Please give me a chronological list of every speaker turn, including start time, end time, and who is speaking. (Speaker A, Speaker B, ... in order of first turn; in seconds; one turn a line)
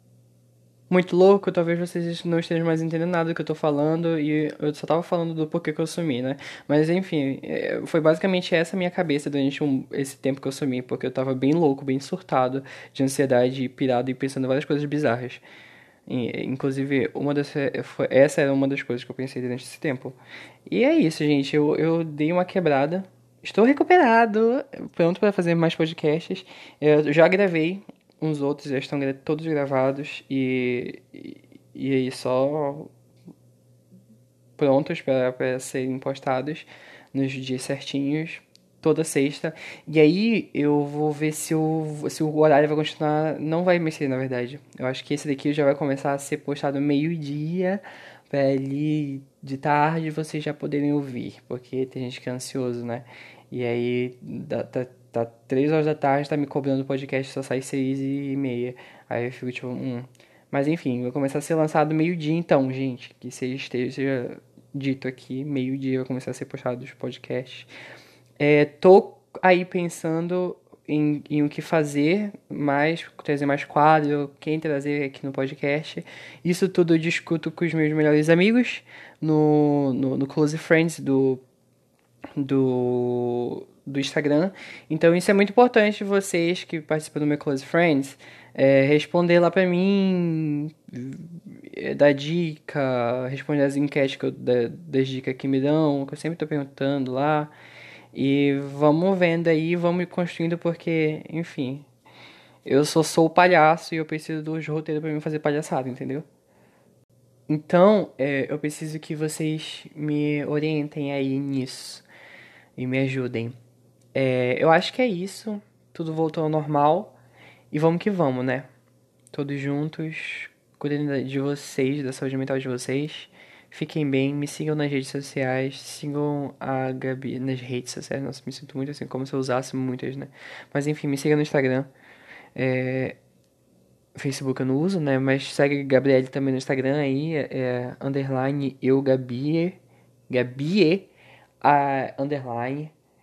Speaker A: 0.9-15.4
Speaker A: 16.1-20.2
Speaker A: 20.7-32.9
Speaker A: 34.6-67.7
Speaker A: 68.4-81.4
Speaker A: 82.4-97.5
Speaker A: 98.1-101.9
Speaker A: 102.6-106.2
Speaker A: 107.5-112.0
Speaker A: 112.8-113.5
Speaker A: 114.1-117.2
Speaker A: 117.7-118.7
Speaker A: 119.3-131.9
Speaker A: 132.6-133.2
Speaker A: 134.2-139.8
Speaker A: 140.3-141.1
Speaker A: 141.6-142.9